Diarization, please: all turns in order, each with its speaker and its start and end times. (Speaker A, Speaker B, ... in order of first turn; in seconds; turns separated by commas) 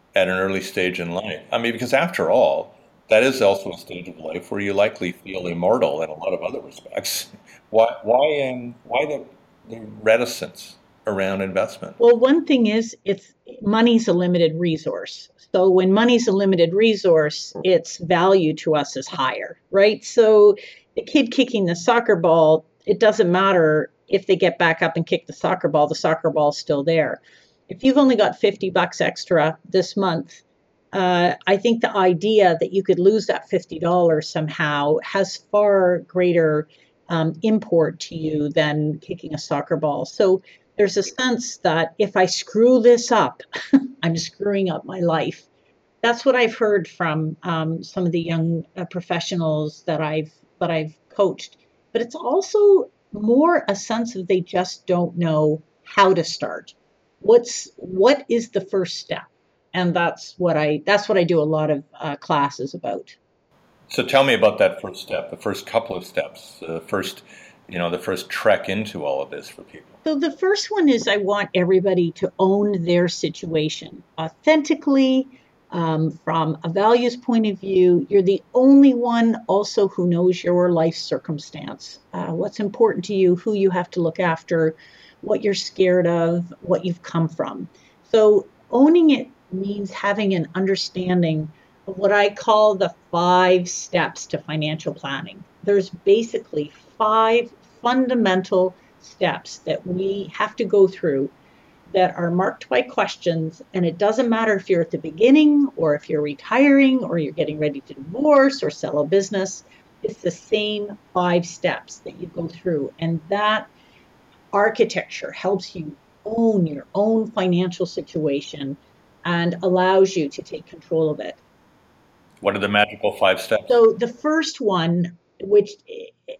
Speaker A: 0.1-12.0, Speaker B: 12.0-43.4, Speaker B: 44.0-45.5, Speaker B: 46.0-63.2, Speaker A: 63.9-70.0, Speaker B: 70.0-101.3, Speaker B: 101.9-113.7, Speaker B: 114.5-121.4, Speaker A: 122.4-123.8, Speaker B: 123.7-126.2